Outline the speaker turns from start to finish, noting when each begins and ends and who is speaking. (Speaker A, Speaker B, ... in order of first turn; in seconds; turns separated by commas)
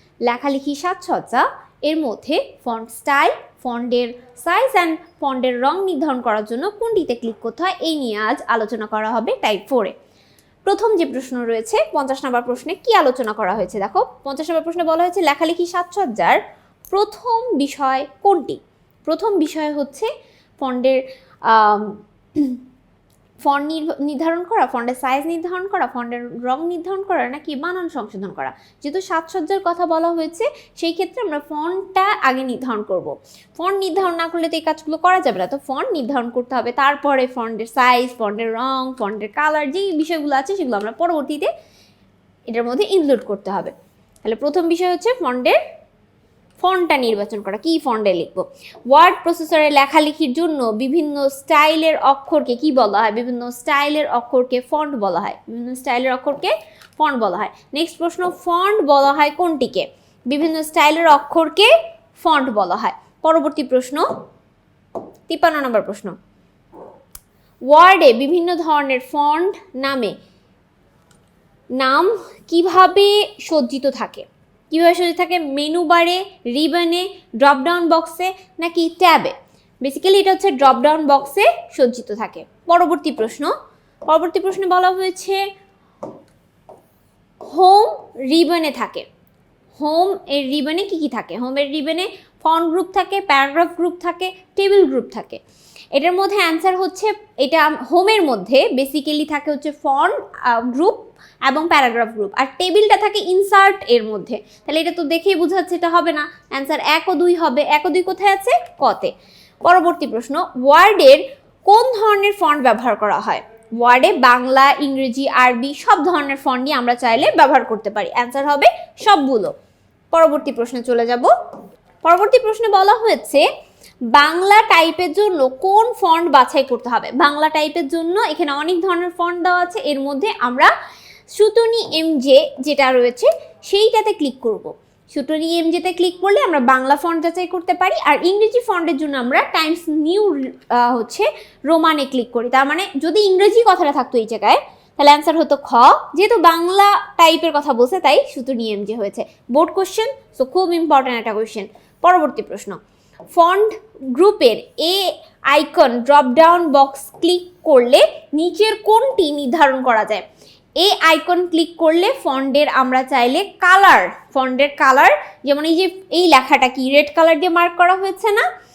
Speaker A: 0.2-9.9, Speaker A: 10.6-22.6, Speaker A: 23.4-41.5, Speaker A: 42.5-43.7, Speaker A: 44.2-45.6, Speaker A: 46.6-64.1, Speaker A: 65.3-66.1, Speaker A: 67.7-70.1, Speaker A: 71.8-83.5, Speaker A: 84.1-85.5, Speaker A: 87.4-89.0, Speaker A: 89.8-95.4, Speaker A: 95.9-109.1, Speaker A: 109.6-119.5, Speaker A: 120.1-121.3, Speaker A: 122.0-123.5, Speaker A: 124.1-130.7, Speaker A: 131.3-152.8, Speaker A: 153.3-160.2, Speaker A: 160.8-168.5